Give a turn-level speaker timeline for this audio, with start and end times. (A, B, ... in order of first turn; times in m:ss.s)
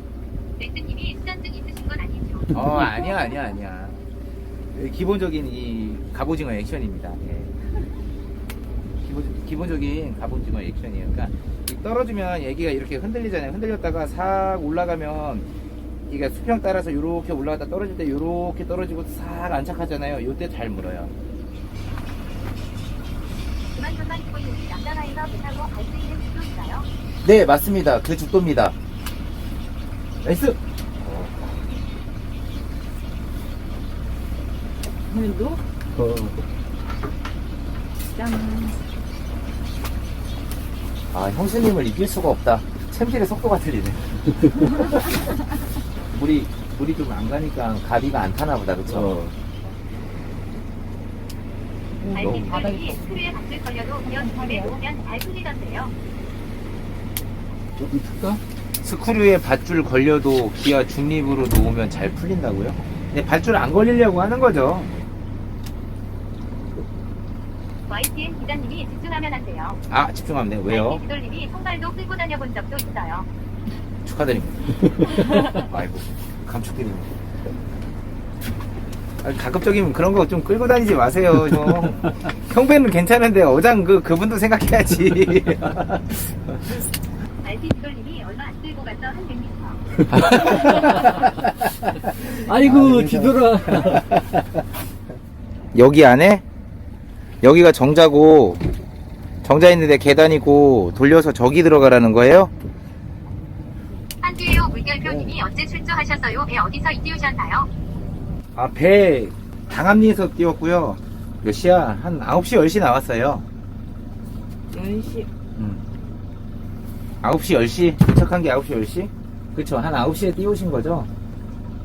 0:00.6-0:03.5 A
0:02.5-0:04.0 B
0:04.7-0:07.5 B
0:09.0-0:15.5 B
0:16.1-0:21.1 B
0:23.7-0:26.9 A
0:27.2-0:28.7 B
0:30.2-0:31.6 B
0:35.1-0:35.6 C
0:35.9-0:36.4 D
0:38.0-0:38.8 C
0:41.1-0:45.1 B
0:46.1-0:49.2 B
0:48.9-0:49.3 D
0:52.0-0:53.3 C
0:52.1-0:55.9 A
0:52.2-0:52.6 B
0:54.0-0:54.8 C
0:57.8-0:58.4 D
0:58.8-1:04.9 B
1:07.9-1:09.8 A
1:09.9-1:11.0 B
1:10.7-1:13.3 A
1:14.0-1:17.1 B
1:19.2-1:26.4 B
1:27.4-1:29.8 A
1:30.1-1:31.3 B
1:30.4-1:30.9 D
1:32.2-1:34.1 D
1:32.3-1:33.3 B
1:35.7-1:36.4 B
1:37.4-1:38.6 B
1:39.4-1:42.5 B
1:44.2-1:47.7 A
1:45.0-1:45.4 B
1:48.5-1:53.4 B
1:54.7-1:55.3 C
1:55.6-1:55.9 B
1:57.2-2:01.1 B